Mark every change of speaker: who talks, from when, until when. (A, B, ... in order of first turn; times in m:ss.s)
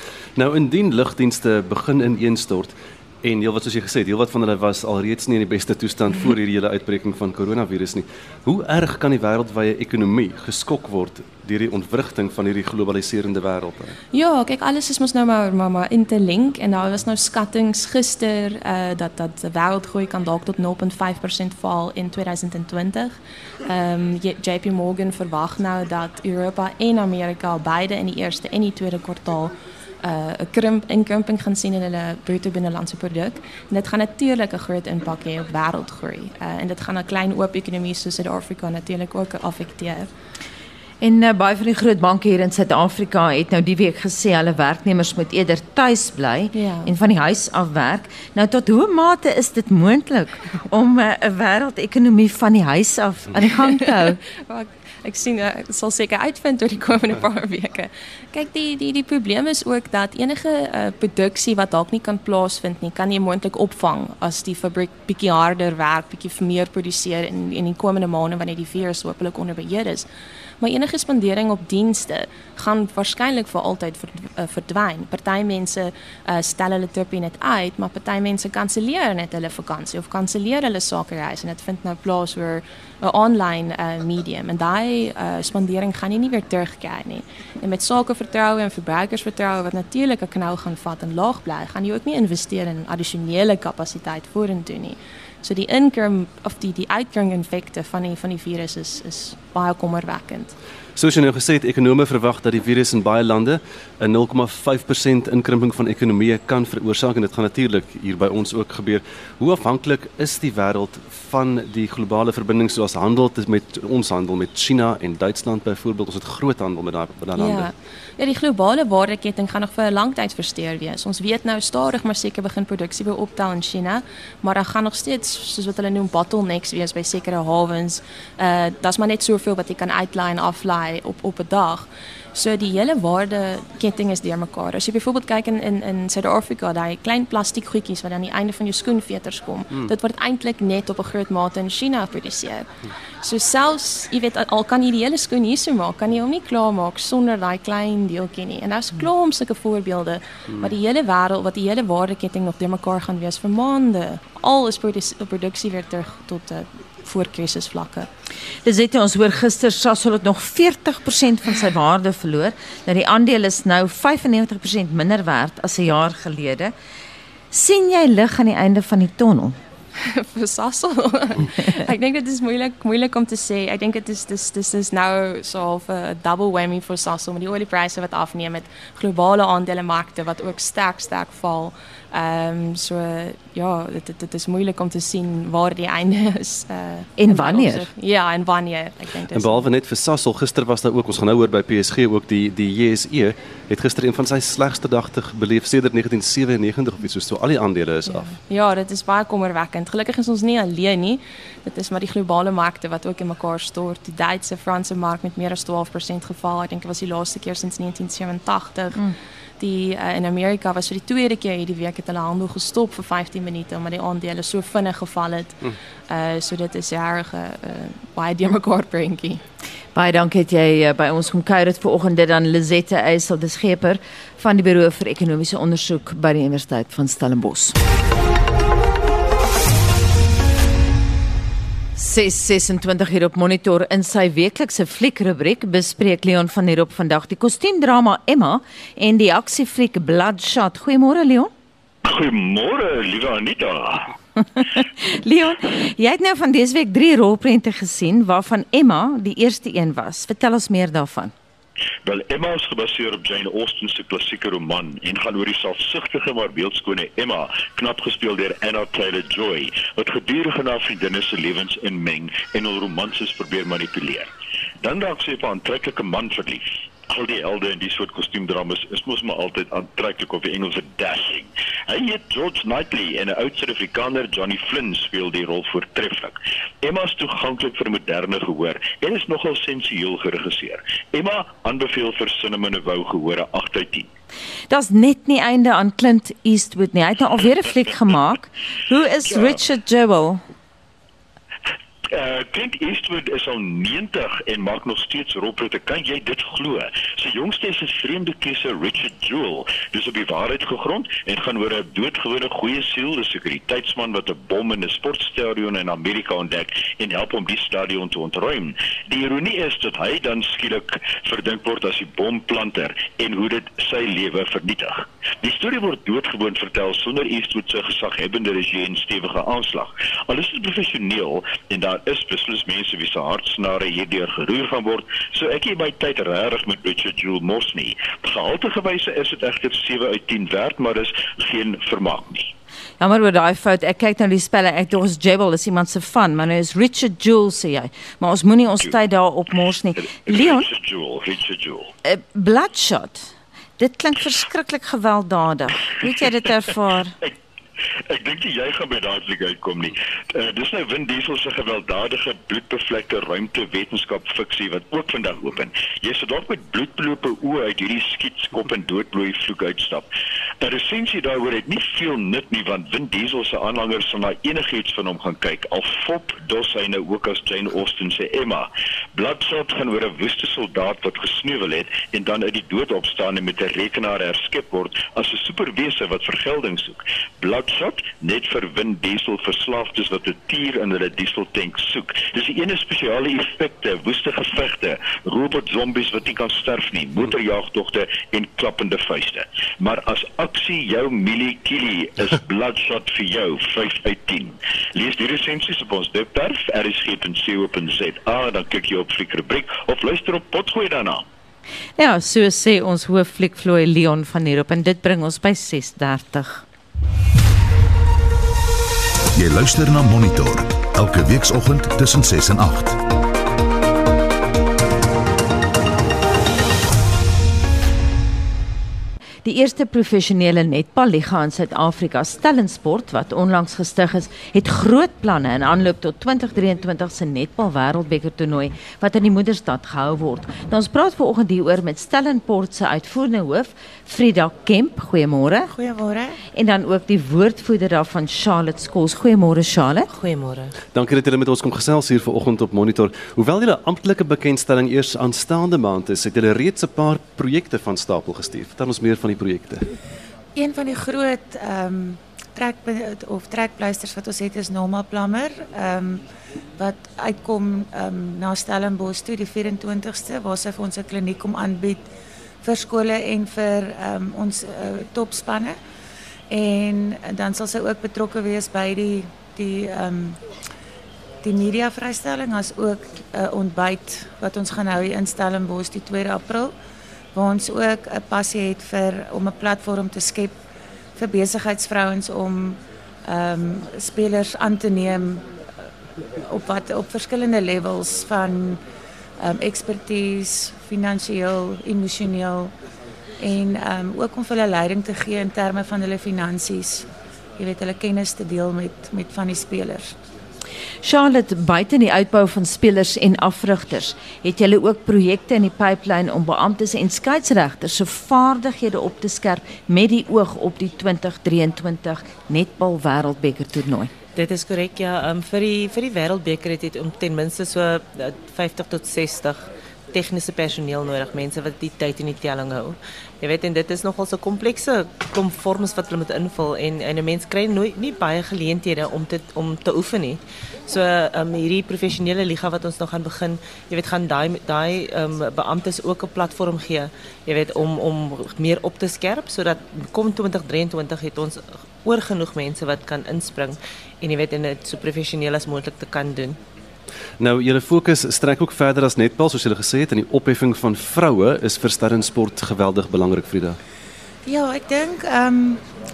0:00.4-0:14.0 A
0:14.1-0:40.1 B
0:41.0-0:54.2 C
0:46.5-0:46.9 B
0:53.4-1:10.1 B
1:10.6-1:40.5 B
1:41.0-1:57.7 A
1:57.4-2:22.7 B
2:23.2-2:38.1 B
2:38.6-2:46.7 C
2:47.5-2:49.6 C
2:50.0-3:09.7 B
3:07.2-3:07.9 C
3:09.3-3:18.3 A
3:18.1-3:29.0 B
3:29.6-3:39.4 B
3:39.9-3:47.8 C
3:52.0-4:01.5 C
4:02.0-4:04.1 D
4:05.0-4:11.3 C
4:12.0-4:24.3 D
4:24.8-4:44.1 D
4:44.7-4:50.4 C
4:52.1-5:32.5 D
5:33.0-5:40.6 C
5:40.0-5:41.9 D
5:42.0-5:47.1 C
5:48.1-6:00.1 D
6:00.6-6:41.2 D
6:42.0-6:46.6 C
6:49.3-6:53.0 E
6:59.4-7:15.7 C
7:15.7-7:16.4 F
7:16.5-7:20.1 C
7:20.1-7:20.7 G
7:20.9-7:29.9 A
7:30.5-7:36.2 F
7:36.8-7:42.1 F
7:42.6-7:45.8 F
7:46.5-7:50.4 F
7:51.4-7:56.7 F
7:57.3-8:00.6 F
8:01.2-8:05.4 F
8:06.4-8:08.8 F
8:09.4-8:12.7 F
8:13.4-8:20.2 F
8:21.0-8:34.1 C
8:34.3-9:06.6 G
9:07.4-9:13.8 A
9:14.4-9:15.8 F